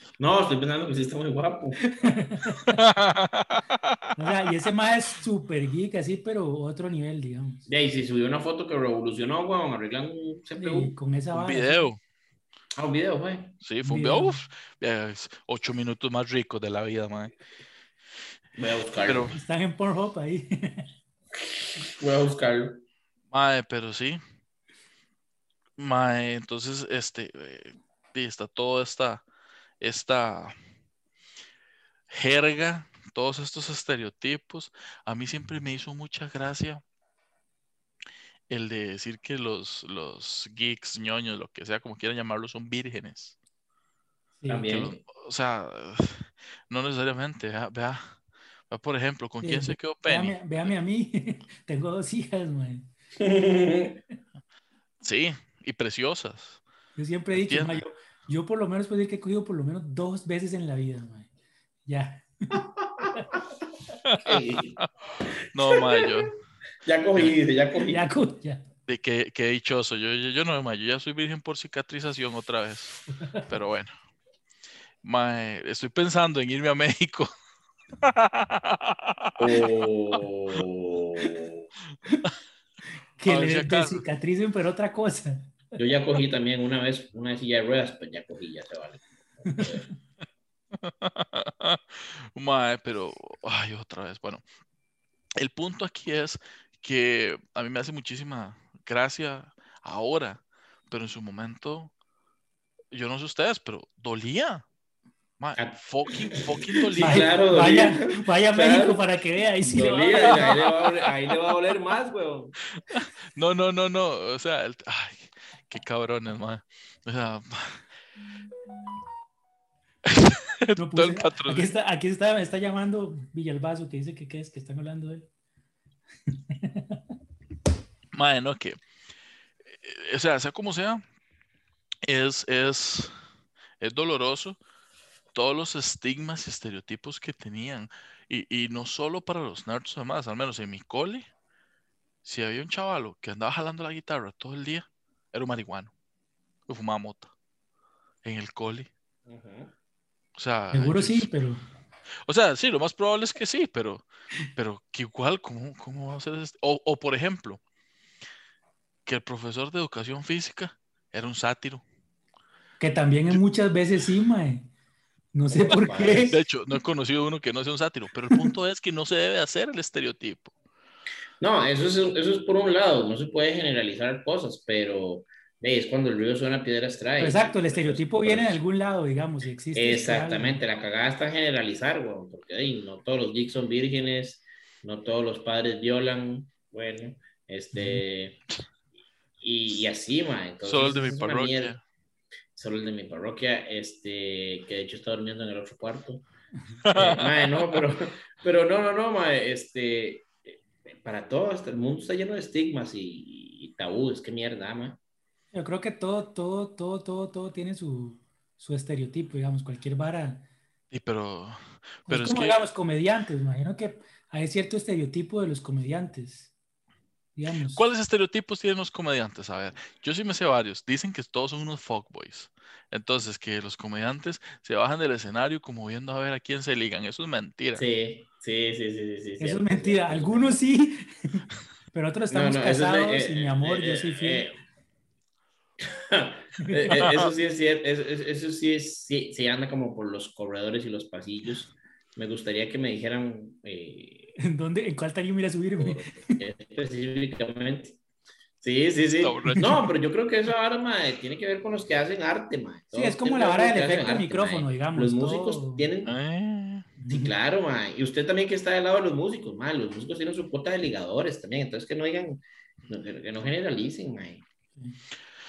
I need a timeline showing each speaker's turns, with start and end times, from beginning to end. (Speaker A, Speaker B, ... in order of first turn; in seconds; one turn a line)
Speaker A: 0.2-1.8
Speaker B: 1.8-2.8
Speaker C: 2.8-4.2
Speaker B: 4.2-7.6
Speaker A: 7.7-10.9
Speaker B: 10.6-11.8
Speaker C: 11.3-12.0
Speaker A: 12.8-13.6
Speaker C: 13.6-17.3
Speaker B: 13.8-14.4
Speaker A: 18.6-19.4
Speaker C: 19.0-19.4
Speaker B: 19.3-20.9
Speaker A: 21.4-22.8
Speaker C: 23.3-24.2
Speaker C: 25.8-29.2
Speaker C: 29.8-30.6
Speaker C: 32.1-36.8
Speaker C: 38.5-43.4
Speaker B: 44.4-44.7
Speaker A: 44.5-45.0
Speaker C: 44.6-48.2
Speaker C: 48.7-50.7
Speaker B: 49.4-52.9
Speaker A: 53.2-54.0
Speaker C: 55.0-56.6
Speaker B: 57.0-61.3
Speaker C: 57.3-57.9
Speaker B: 61.9-62.6
Speaker A: 62.5-63.1
Speaker C: 64.0-64.9
Speaker A: 64.2-64.8
Speaker C: 65.5-66.3
Speaker A: 65.7-66.1
Speaker A: 66.8-68.0
Speaker B: 67.8-68.6
Speaker C: 68.9-73.0
Speaker C: 73.5-73.9
Speaker C: 75.0-77.3
Speaker C: 78.0-79.6
Speaker A: 79.4-81.6
Speaker B: 83.2-85.7
Speaker C: 83.3-84.0
Speaker A: 85.8-89.8
Speaker B: 89.5-89.8
Speaker C: 90.8-94.4
Speaker C: 95.4-101.9
Speaker C: 102.9-104.7
Speaker C: 105.4-107.3
Speaker A: 105.6-109.0
Speaker B: 107.0-110.7
Speaker A: 109.6-112.6
Speaker C: 112.8-117.8
Speaker C: 120.1-121.7
Speaker B: 120.8-125.3
Speaker B: 126.3-127.0
Speaker C: 128.1-128.8
Speaker C: 129.7-131.0
Speaker C: 132.1-133.1
Speaker C: 133.8-134.6
Speaker C: 135.3-141.3
Speaker C: 142.2-145.9
Speaker C: 146.7-147.3
Speaker C: 148.2-148.9
Speaker A: 149.3-149.7
Speaker C: 150.4-151.3
Speaker B: 150.7-151.6
Speaker C: 152.3-157.6
Speaker C: 159.1-161.8
Speaker B: 162.8-164.7
Speaker B: 165.3-166.4
Speaker A: 165.5-166.4
Speaker C: 166.3-170.5
Speaker A: 171.4-178.6
Speaker B: 177.2-180.6
Speaker A: 179.8-188.4
Speaker B: 187.7-188.0
Speaker A: 189.4-191.8
Speaker C: 190.6-191.8
Speaker A: 192.6-196.3
Speaker C: 196.9-197.8
Speaker A: 196.9-200.4
Speaker A: 200.9-205.0
Speaker B: 205.5-210.4
Speaker C: 210.9-212.6
Speaker B: 212.1-216.5
Speaker B: 217.4-217.9
Speaker C: 217.8-227.8
Speaker A: 227.7-230.6
Speaker B: 229.4-234.5
Speaker A: 232.3-234.6
Speaker A: 235.8-244.3
Speaker B: 236.6-236.9
Speaker C: 236.9-237.3
Speaker B: 244.4-246.3
Speaker A: 245.8-248.0
Speaker A: 248.6-256.1
Speaker C: 249.2-249.7
Speaker B: 249.5-249.8
Speaker B: 252.9-255.9
Speaker C: 256.1-256.9
Speaker B: 257.0-257.4
Speaker A: 257.1-264.4